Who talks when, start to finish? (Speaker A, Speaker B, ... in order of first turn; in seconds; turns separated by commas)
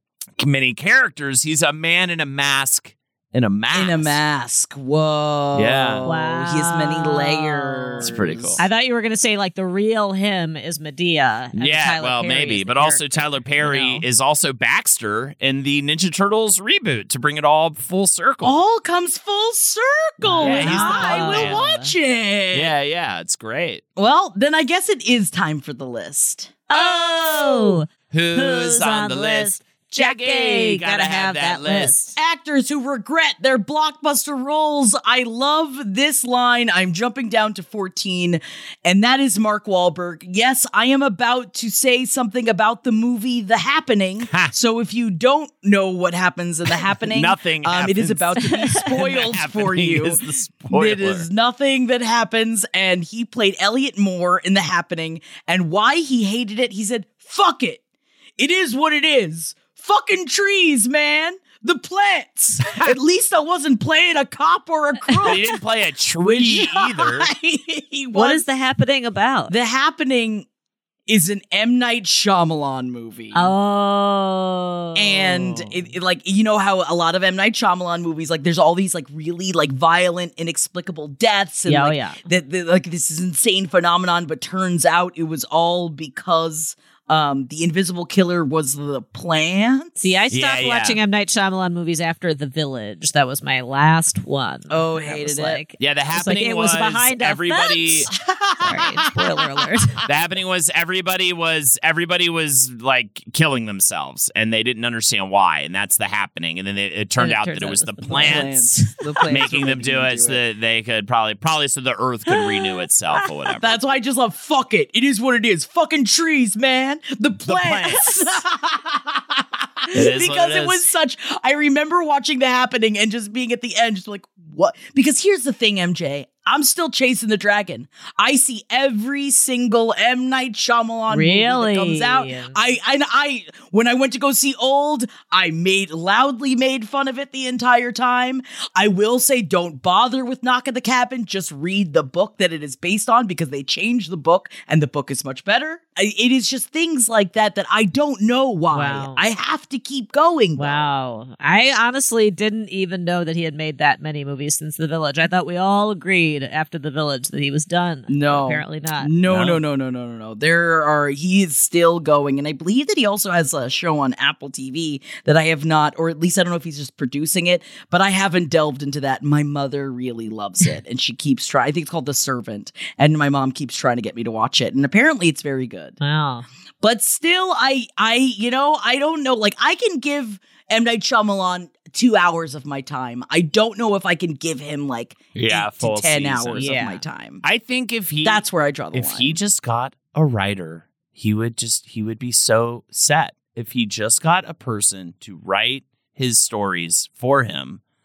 Speaker A: 0.4-4.2, Speaker B: 3.7-8.6, Speaker A: 5.5-6.0, Speaker C: 6.0-14.0, Speaker A: 8.0-8.6, Speaker A: 11.5-18.6, Speaker B: 18.4-22.7, Speaker A: 20.2-21.6, Speaker C: 20.4-21.9, Speaker A: 22.5-23.8, Speaker B: 24.0-27.8, Speaker C: 26.7-32.1, Speaker A: 28.1-32.0, Speaker B: 32.1-57.8, Speaker A: 44.3-44.5, Speaker A: 47.0-51.3, Speaker C: 48.4-48.8, Speaker B: 58.4-65.6, Speaker A: 62.6-62.9, Speaker A: 65.2-67.3, Speaker B: 66.2-68.4, Speaker C: 68.1-69.5, Speaker B: 69.5-70.5, Speaker B: 71.1-73.5, Speaker C: 73.3-75.9, Speaker B: 74.9-90.2, Speaker C: 81.7-82.2, Speaker C: 90.0-100.0, Speaker A: 90.3-91.0, Speaker B: 94.7-95.6, Speaker A: 95.8-98.1, Speaker B: 98.1-99.4, Speaker A: 100.0-108.6, Speaker C: 107.2-109.0, Speaker B: 108.0-110.4, Speaker A: 109.3-113.8, Speaker C: 112.3-112.6, Speaker B: 113.6-150.8, Speaker A: 117.4-118.3, Speaker A: 119.9-120.8, Speaker C: 131.1-132.6, Speaker C: 148.7-149.2, Speaker C: 150.6-159.1, Speaker B: 158.1-176.0, Speaker A: 159.2-159.6, Speaker C: 176.0-176.4, Speaker B: 176.8-187.4, Speaker A: 185.3-186.8, Speaker C: 186.5-187.0, Speaker A: 187.4-197.8, Speaker B: 188.2-189.4